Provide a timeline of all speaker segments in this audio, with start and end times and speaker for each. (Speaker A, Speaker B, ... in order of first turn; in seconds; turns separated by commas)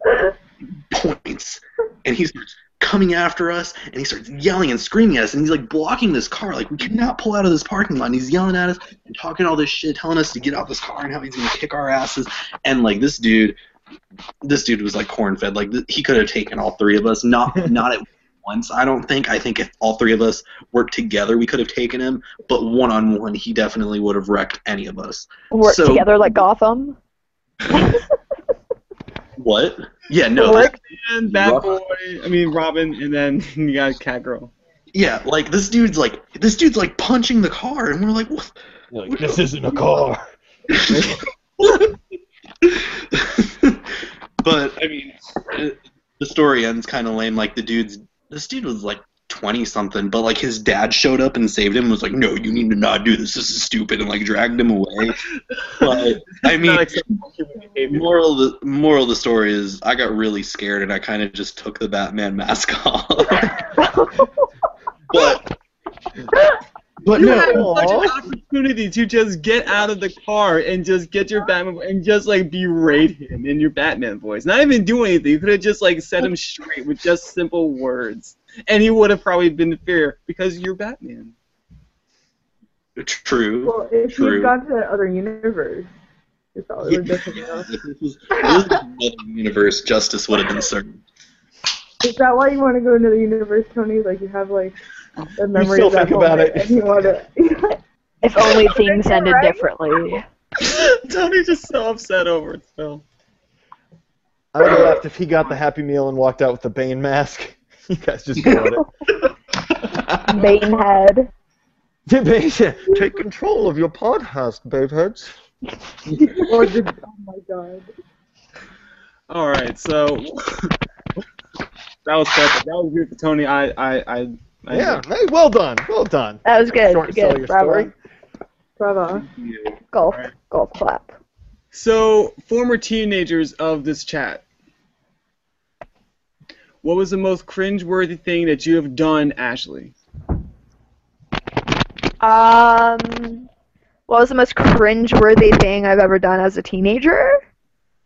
Speaker A: 0.9-13.6, Speaker A: 14.4-26.1, Speaker B: 25.5-27.0, Speaker A: 29.4-31.8, Speaker C: 30.4-34.5, Speaker B: 30.4-30.7, Speaker A: 34.9-38.5, Speaker D: 38.9-40.3, Speaker A: 39.1-39.4, Speaker A: 40.7-41.0, Speaker D: 40.9-41.2, Speaker A: 41.6-41.9, Speaker A: 42.6-43.9, Speaker A: 44.4-55.2, Speaker C: 55.6-58.1, Speaker A: 55.8-57.1, Speaker A: 57.9-63.7, Speaker E: 63.8-64.3, Speaker A: 65.1-65.5, Speaker A: 67.0-68.0, Speaker C: 67.2-81.3, Speaker D: 67.4-68.1, Speaker A: 83.0-84.5, Speaker E: 83.6-85.9, Speaker E: 86.5-87.7, Speaker A: 86.8-91.0, Speaker E: 92.0-94.8, Speaker E: 95.4-97.8, Speaker D: 95.5-97.2, Speaker B: 98.2-100.2, Speaker E: 98.4-100.2, Speaker C: 100.6-103.0, Speaker D: 104.5-108.8, Speaker A: 109.8-110.3, Speaker B: 110.3-111.3, Speaker C: 110.3-110.6, Speaker D: 112.1-115.3, Speaker A: 116.1-116.6, Speaker E: 116.3-117.9, Speaker C: 119.3-120.8, Speaker C: 122.0-125.0, Speaker D: 124.7-127.9, Speaker B: 126.5-127.9, Speaker E: 128.8-129.3, Speaker A: 129.3-129.8, Speaker B: 129.9-131.1, Speaker C: 131.7-134.4, Speaker C: 136.8-139.9, Speaker B: 142.2-143.5, Speaker B: 144.1-147.4